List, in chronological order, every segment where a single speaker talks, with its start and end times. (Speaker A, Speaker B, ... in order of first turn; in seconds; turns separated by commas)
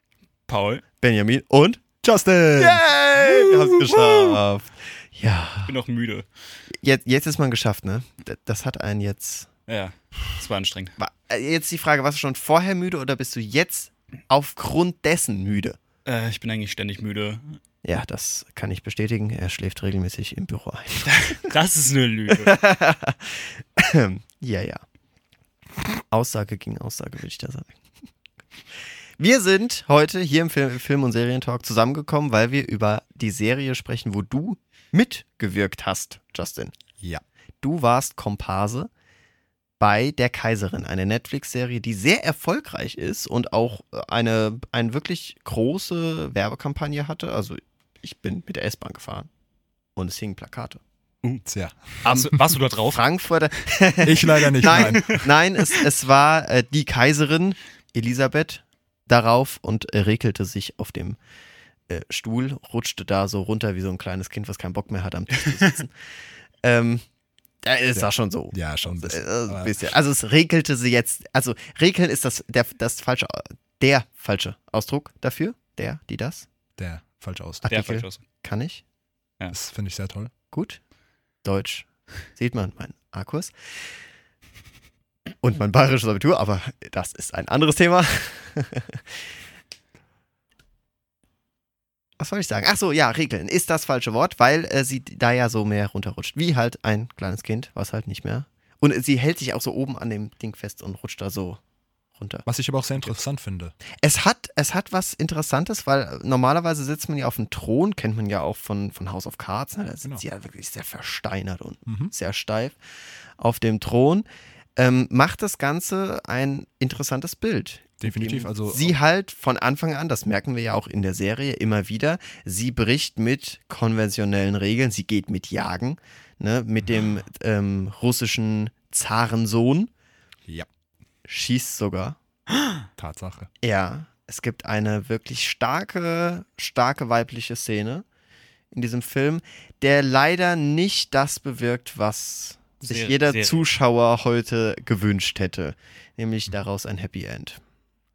Speaker A: 0.5-0.8, Speaker B: 1.0-1.8, Speaker C: 2.0-4.4, Speaker B: 2.6-5.8, Speaker A: 5.7-6.3, Speaker B: 6.8-9.5, Speaker A: 9.7-10.9, Speaker B: 11.0-15.8, Speaker A: 16.1-17.5, Speaker B: 17.8-21.5, Speaker A: 21.1-22.6, Speaker B: 22.4-24.8, Speaker B: 26.1-27.8, Speaker B: 29.2-36.7, Speaker B: 37.6-38.9, Speaker B: 39.8-49.3, Speaker B: 50.0-50.8, Speaker C: 51.5-52.4, Speaker A: 52.0-53.0, Speaker B: 52.0-61.2, Speaker C: 54.0-55.3, Speaker A: 54.6-55.2, Speaker B: 61.9-65.9, Speaker B: 66.6-67.0, Speaker B: 67.6-76.5, Speaker C: 68.0-69.9, Speaker C: 76.8-77.8, Speaker B: 77.7-78.8, Speaker A: 77.7-78.2, Speaker C: 79.5-80.3, Speaker B: 80.5-80.8, Speaker B: 81.4-83.5, Speaker B: 85.4-89.0, Speaker B: 92.2-101.6, Speaker B: 102.2-102.5, Speaker C: 102.5-103.8, Speaker B: 104.0-112.8, Speaker C: 111.9-112.1, Speaker B: 113.4-114.2, Speaker B: 114.8-129.9, Speaker C: 118.0-119.0, Speaker B: 131.3-132.2, Speaker C: 133.0-133.5, Speaker B: 133.6-138.1, Speaker B: 138.7-147.6, Speaker A: 142.8-143.7